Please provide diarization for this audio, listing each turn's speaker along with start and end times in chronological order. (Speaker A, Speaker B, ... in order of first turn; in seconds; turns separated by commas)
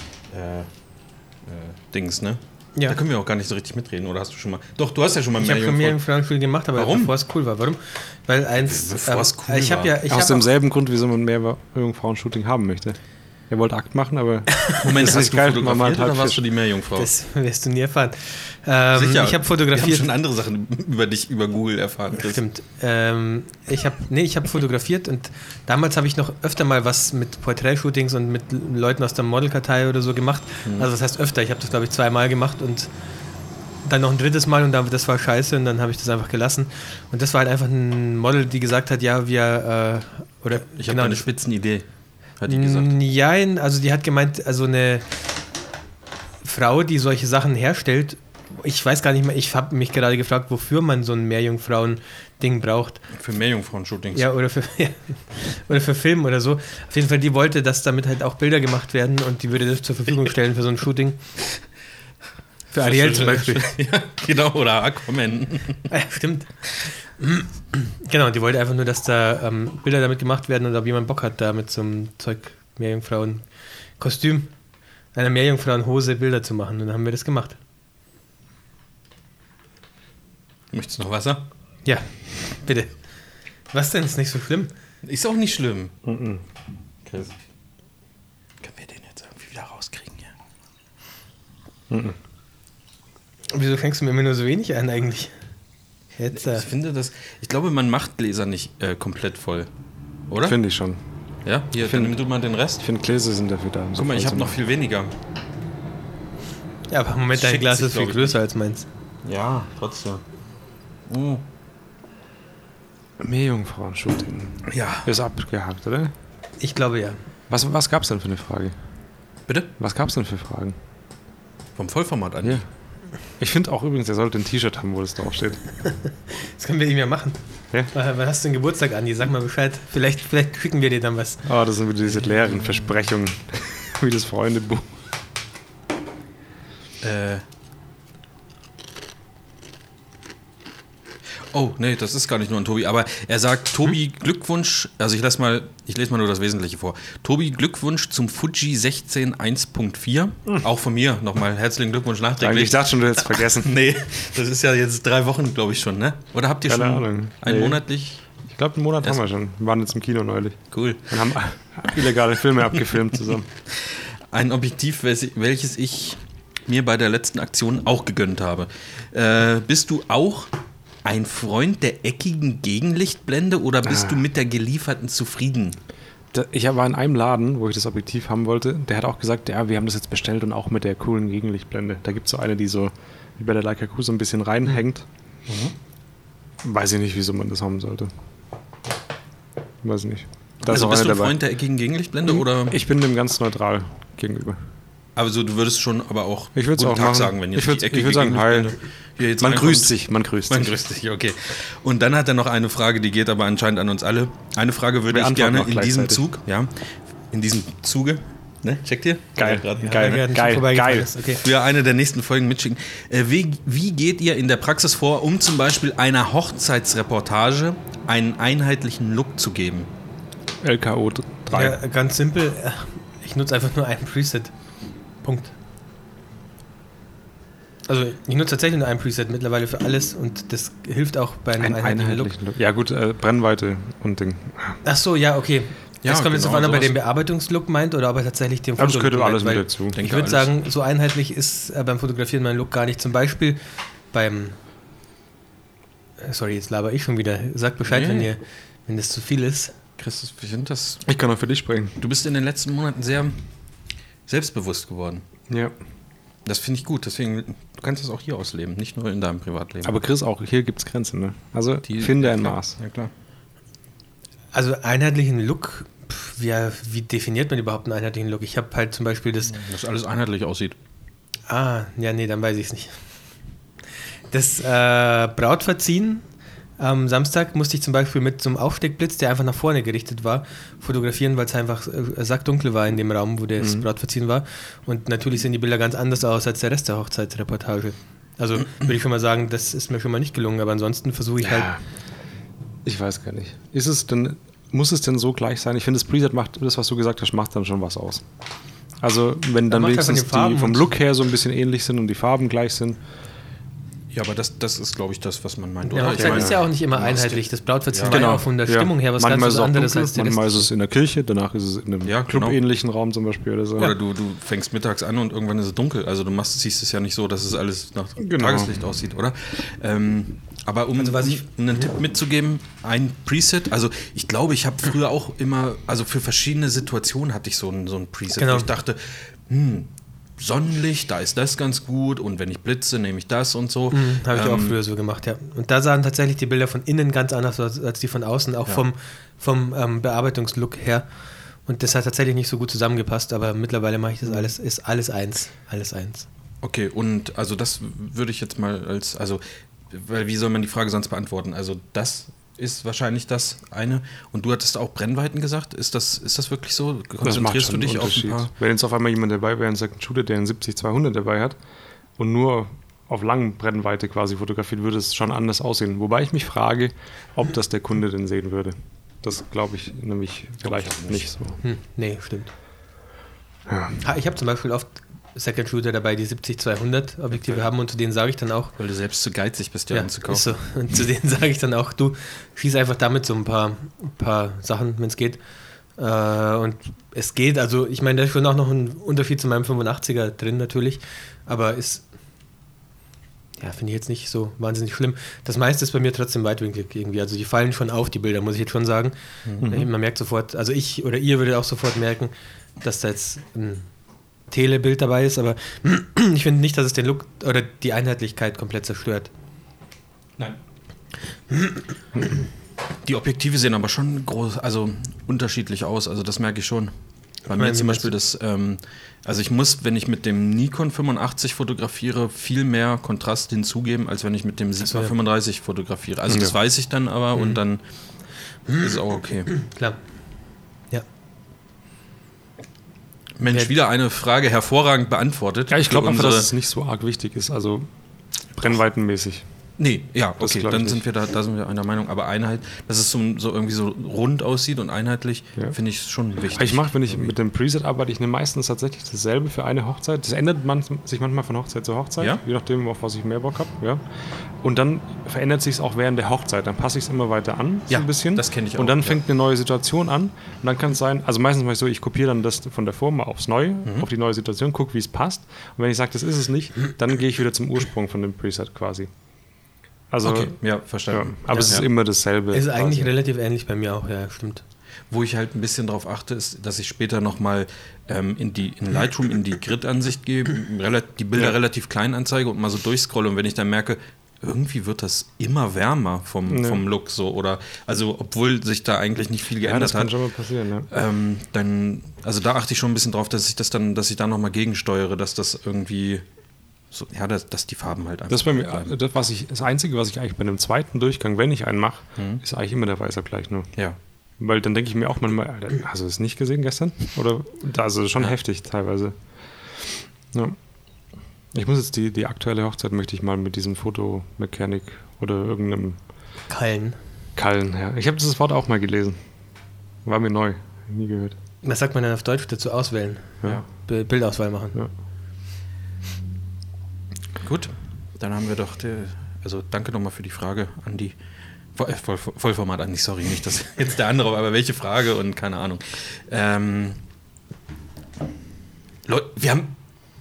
Speaker A: 0.3-0.7, Speaker A: 1.4-6.0, Speaker B: 5.4-10.5, Speaker A: 6.7-7.1, Speaker A: 8.6-9.9, Speaker C: 10.1-13.0, Speaker C: 13.5-16.4, Speaker A: 14.7-17.1, Speaker B: 17.0-20.1, Speaker A: 18.9-22.4, Speaker B: 22.1-32.9, Speaker B: 33.8-41.2, Speaker A: 40.6-41.9, Speaker A: 42.4-43.0, Speaker B: 42.5-45.1, Speaker B: 46.4-53.0, Speaker A: 53.1-54.3, Speaker B: 54.1-61.2, Speaker B: 62.7-63.7, Speaker A: 62.8-65.8, Speaker B: 65.9-66.7, Speaker B: 67.2-73.4, Speaker B: 74.0-74.5, Speaker B: 75.1-77.6, Speaker A: 80.7-81.4, Speaker B: 81.8-82.9, Speaker B: 83.7-84.7, Speaker A: 85.0-85.9, Speaker C: 86.0-86.4, Speaker A: 87.0-87.3, Speaker A: 88.6-90.3, Speaker C: 91.9-92.2, Speaker B: 93.5-95.3, Speaker B: 96.2-96.7, Speaker A: 96.3-99.7, Speaker A: 100.3-100.6, Speaker C: 100.4-101.0, Speaker A: 101.4-102.8, Speaker C: 101.8-102.2, Speaker C: 102.8-104.5, Speaker A: 104.0-105.1, Speaker B: 106.9-108.9, Speaker A: 107.3-108.3, Speaker A: 109.2-110.2, Speaker A: 111.1-111.4, Speaker C: 113.2-116.1, Speaker A: 114.7-115.1, Speaker B: 116.6-117.2, Speaker C: 117.5-118.7, Speaker C: 119.8-120.8, Speaker A: 121.8-122.6, Speaker C: 123.4-125.6, Speaker B: 125.8-127.4, Speaker B: 127.9-131.4, Speaker C: 131.4-134.9, Speaker A: 132.1-132.9, Speaker A: 137.0-137.4, Speaker A: 141.5-158.2, Speaker C: 152.4-153.7, Speaker C: 156.7-157.8, Speaker C: 158.4-163.5, Speaker A: 160.7-161.1, Speaker A: 163.7-170.5, Speaker A: 171.0-175.8, Speaker C: 173.9-174.2, Speaker C: 176.3-185.1, Speaker A: 185.5-185.7, Speaker C: 186.6-188.1, Speaker C: 189.8-191.4, Speaker A: 190.6-192.8, Speaker C: 192.3-194.6, Speaker A: 195.2-199.9, Speaker C: 196.5-198.7, Speaker C: 199.4-200.8, Speaker A: 200.5-210.2, Speaker C: 205.1-206.3, Speaker C: 209.4-211.1, Speaker B: 209.8-211.4, Speaker A: 211.3-219.9, Speaker C: 220.6-221.8, Speaker B: 221.5-224.5, Speaker B: 225.2-225.5, Speaker B: 227.9-232.3, Speaker C: 231.6-234.8, Speaker B: 234.8-243.6, Speaker A: 236.0-236.9, Speaker C: 238.8-240.0, Speaker A: 239.9-240.5, Speaker B: 244.1-244.6, Speaker B: 246.2-249.8, Speaker A: 247.8-248.3, Speaker A: 250.0-251.0, Speaker C: 251.0-252.0, Speaker A: 252.0-253.4, Speaker A: 254.3-255.2, Speaker C: 255.5-255.7, Speaker A: 256.4-260.0, Speaker C: 259.8-262.8, Speaker A: 261.8-263.1, Speaker B: 264.5-269.6, Speaker A: 269.5-270.8, Speaker B: 271.5-272.9, Speaker B: 274.3-276.2, Speaker B: 276.8-291.7, Speaker C: 283.6-283.9, Speaker C: 291.4-291.8, Speaker C: 292.8-298.2, Speaker C: 299.0-303.0, Speaker B: 299.7-300.9, Speaker A: 304.1-308.2, Speaker B: 305.9-310.6, Speaker C: 306.1-306.6, Speaker C: 308.1-313.9, Speaker A: 312.0-312.6, Speaker A: 313.8-334.8, Speaker C: 318.2-318.8, Speaker B: 321.0-321.8, Speaker B: 328.4-328.7, Speaker B: 333.9-341.1, Speaker B: 341.7-346.2, Speaker A: 346.6-358.5, Speaker C: 357.2-361.6, Speaker C: 362.2-371.6, Speaker A: 370.6-371.3, Speaker B: 371.6-372.5, Speaker C: 373.7-374.0, Speaker B: 374.0-378.7, Speaker A: 377.4-377.6, Speaker A: 378.8-380.5, Speaker B: 379.9-385.4, Speaker B: 386.0-392.0, Speaker B: 393.6-403.9, Speaker C: 399.6-399.9, Speaker B: 404.5-409.3, Speaker A: 413.0-416.9, Speaker A: 417.5-427.8, Speaker B: 417.5-418.1, Speaker B: 424.9-425.1, Speaker C: 426.3-426.5, Speaker B: 427.3-427.6, Speaker A: 428.7-429.5, Speaker B: 429.5-430.0, Speaker A: 433.4-436.5, Speaker C: 435.7-437.9, Speaker C: 438.5-439.4, Speaker A: 439.8-447.3, Speaker C: 440.4-441.0, Speaker C: 446.5-454.0, Speaker C: 454.6-469.1, Speaker A: 457.9-459.2, Speaker C: 470.1-470.5, Speaker A: 470.2-471.8, Speaker C: 471.1-473.1, Speaker B: 471.5-471.8, Speaker B: 472.5-474.6, Speaker A: 475.1-490.1, Speaker C: 486.5-486.8, Speaker C: 489.6-490.9, Speaker A: 490.9-496.2, Speaker A: 496.9-498.9, Speaker C: 498.3-503.7, Speaker A: 502.1-502.4, Speaker C: 504.4-509.1, Speaker C: 511.5-516.0, Speaker B: 516.5-517.0, Speaker C: 517.4-519.2, Speaker C: 520.0-521.4, Speaker B: 521.6-524.8, Speaker A: 527.4-531.1, Speaker A: 531.7-537.0, Speaker A: 539.0-539.7